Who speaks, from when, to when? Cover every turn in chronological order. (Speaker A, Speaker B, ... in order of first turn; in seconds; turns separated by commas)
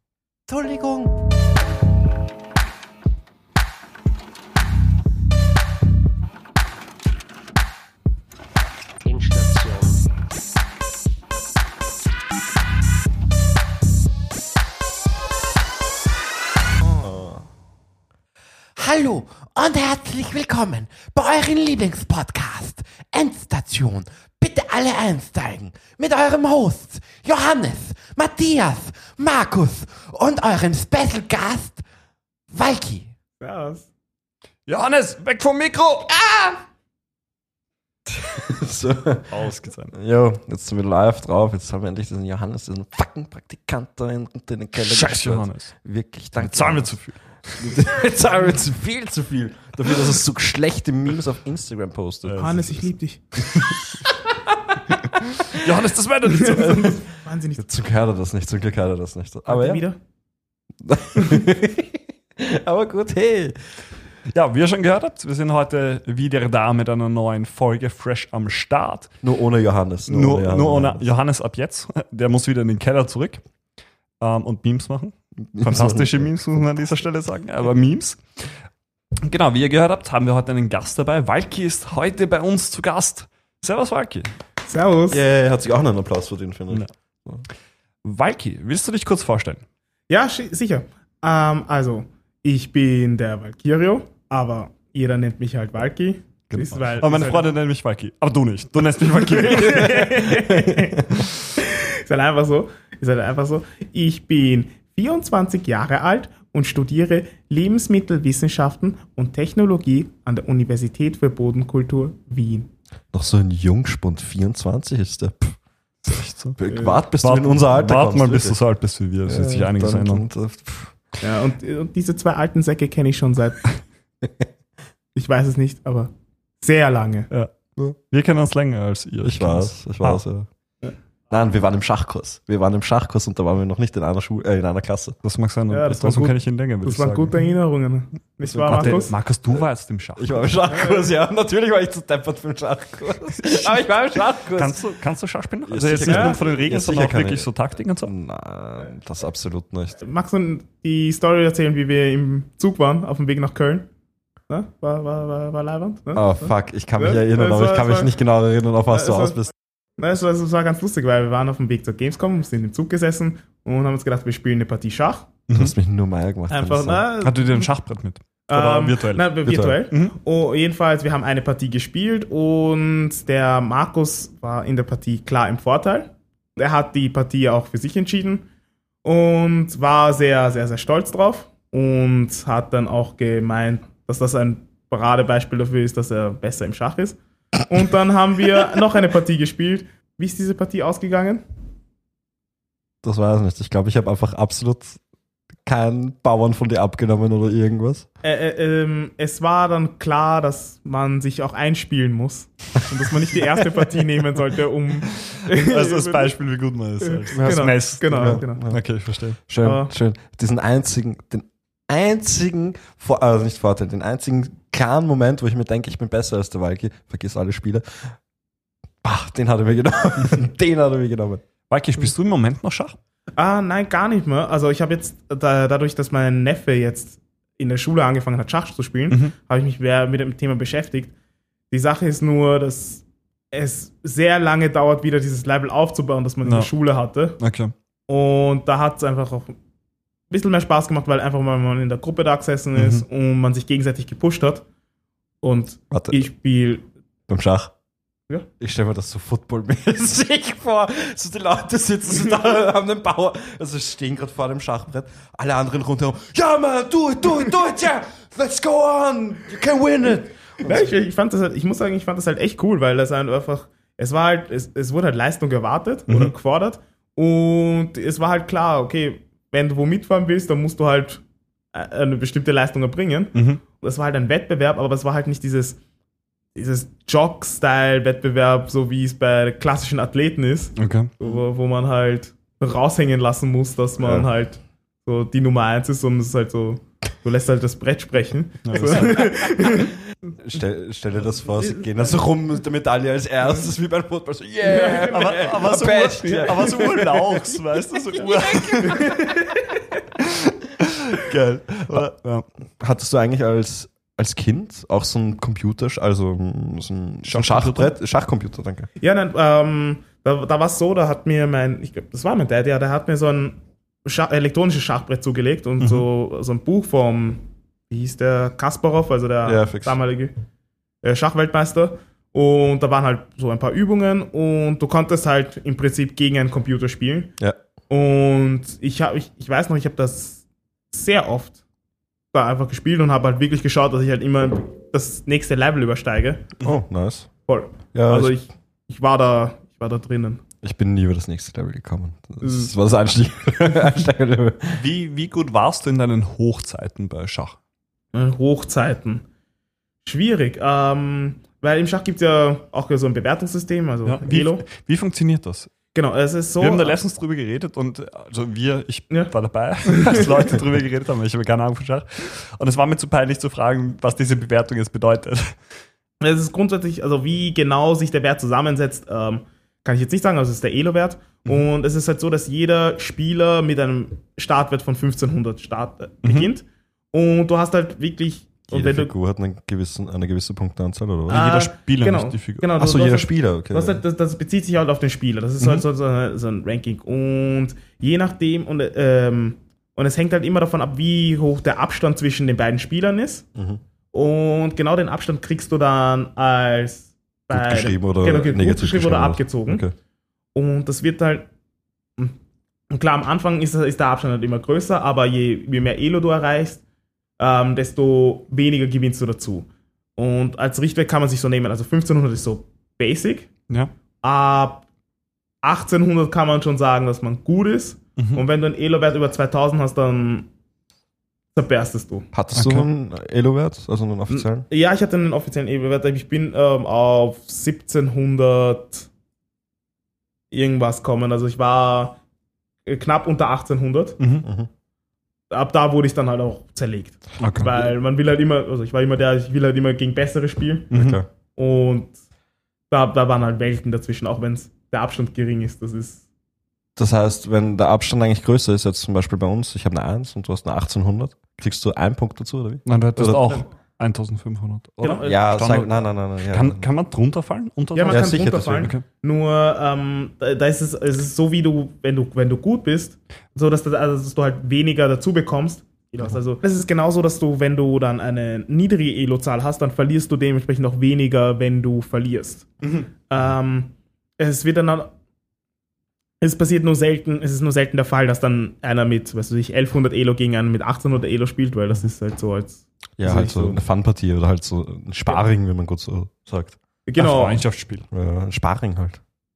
Speaker A: 0.5-1.1, Speaker A: 9.0-10.1, Speaker B: 16.9-17.4, Speaker A: 18.8-31.8, Speaker A: 32.5-33.1, Speaker C: 33.4-33.9, Speaker D: 34.7-36.1, Speaker A: 36.2-36.5, Speaker B: 38.1-39.4, Speaker D: 39.3-39.9, Speaker B: 39.9-47.0, Speaker D: 44.8-45.7, Speaker D: 46.4-47.8, Speaker B: 47.6-52.7, Speaker D: 52.2-52.8, Speaker C: 52.4-53.3, Speaker D: 53.4-53.8, Speaker D: 55.0-57.0, Speaker C: 56.4-57.6, Speaker B: 56.5-57.0, Speaker B: 57.6-59.8, Speaker C: 59.5-60.0, Speaker B: 60.8-63.6, Speaker D: 64.3-69.1, Speaker B: 69.2-71.0, Speaker D: 70.1-73.4, Speaker D: 74.2-78.5, Speaker B: 75.5-76.3, Speaker D: 79.2-84.3, Speaker C: 84.7-85.2, Speaker B: 85.1-87.4, Speaker D: 88.0-89.6, Speaker C: 90.1-97.5, Speaker D: 96.5-100.2, Speaker C: 99.1-112.7, Speaker B: 100.5-101.0, Speaker B: 113.1-115.5, Speaker D: 116.0-116.6, Speaker B: 116.6-118.6, Speaker C: 116.7-117.0, Speaker D: 117.2-120.2, Speaker B: 119.3-121.0, Speaker C: 121.2-123.8, Speaker C: 125.1-127.3, Speaker D: 127.3-130.2, Speaker B: 129.2-130.5, Speaker B: 131.3-135.2, Speaker D: 135.2-137.3, Speaker C: 135.7-139.1, Speaker B: 138.4-139.1, Speaker D: 138.7-140.5, Speaker B: 140.2-144.8, Speaker D: 144.5-148.1, Speaker B: 145.7-147.5, Speaker C: 146.1-146.4, Speaker B: 148.0-150.0, Speaker C: 150.0-153.9, Speaker C: 154.5-158.1, Speaker B: 156.1-159.5, Speaker C: 158.9-159.4, Speaker C: 160.0-165.3, Speaker B: 165.5-167.0, Speaker C: 166.5-167.7, Speaker D: 167.2-170.1, Speaker C: 168.5-178.4, Speaker B: 169.4-169.8, Speaker C: 179.0-191.4, Speaker B: 193.0-195.0, Speaker B: 195.6-198.1, Speaker C: 198.2-206.3, Speaker B: 203.3-203.8, Speaker D: 205.2-209.4, Speaker C: 207.1-208.7, Speaker B: 207.3-208.8, Speaker B: 209.5-218.1, Speaker C: 209.6-209.9, Speaker B: 219.0-221.4, Speaker D: 221.7-223.0, Speaker C: 223.4-231.1, Speaker C: 231.7-237.4, Speaker D: 237.4-237.7, Speaker C: 238.1-239.5, Speaker C: 240.3-244.6, Speaker D: 242.7-243.0, Speaker C: 245.4-246.8, Speaker B: 245.9-246.2, Speaker B: 247.3-247.7, Speaker B: 248.6-260.9, Speaker C: 260.6-275.8, Speaker D: 273.3-273.6, Speaker C: 276.5-289.9, Speaker D: 280.8-281.1, Speaker B: 284.0-284.3, Speaker D: 288.6-289.2, Speaker B: 288.8-289.2, Speaker B: 290.4-297.6, Speaker C: 291.6-291.9, Speaker C: 294.6-295.5, Speaker D: 295.0-299.1, Speaker C: 296.2-296.5, Speaker B: 298.1-298.6, Speaker C: 298.8-299.8, Speaker D: 300.8-302.5, Speaker B: 302.8-308.9, Speaker D: 307.2-307.9, Speaker C: 309.0-320.3, Speaker B: 319.4-320.0, Speaker C: 321.0-327.3, Speaker C: 327.9-331.6, Speaker C: 332.3-336.5, Speaker B: 336.6-337.3, Speaker C: 337.5-340.4, Speaker B: 337.9-338.4, Speaker B: 340.6-344.8, Speaker C: 342.4-342.7, Speaker D: 344.7-347.6, Speaker C: 348.1-349.2, Speaker C: 350.0-354.6, Speaker D: 354.1-355.7, Speaker C: 355.9-357.0, Speaker D: 356.6-365.6, Speaker C: 359.9-360.2, Speaker C: 366.2-379.1, Speaker D: 376.2-376.5, Speaker B: 378.7-381.4, Speaker D: 381.3-382.7, Speaker C: 381.3-393.4, Speaker B: 382.8-384.0, Speaker B: 393.5-393.8, Speaker C: 394.1-399.8, Speaker B: 397.5-399.9, Speaker C: 400.5-401.5, Speaker C: 402.9-406.8, Speaker C: 407.4-413.5, Speaker C: 414.2-414.8, Speaker C: 415.6-420.5, Speaker D: 418.2-418.4, Speaker C: 421.5-422.3, Speaker B: 422.3-424.6, Speaker D: 422.5-422.9, Speaker C: 424.3-429.1, Speaker C: 430.5-432.2, Speaker C: 432.9-434.2, Speaker D: 434.2-434.4, Speaker B: 434.4-434.7, Speaker C: 435.5-440.9, Speaker D: 437.4-437.7, Speaker D: 440.9-441.2, Speaker B: 440.9-441.2, Speaker C: 441.5-442.1, Speaker C: 442.9-446.2, Speaker B: 446.9-453.6, Speaker D: 452.8-455.9, Speaker C: 455.0-455.3, Speaker B: 455.2-456.9, Speaker D: 456.5-459.0, Speaker C: 457.9-475.1, Speaker B: 458.1-458.9, Speaker C: 476.4-483.8, Speaker B: 483.2-486.8, Speaker C: 487.1-487.6, Speaker D: 487.2-488.1, Speaker B: 488.1-489.2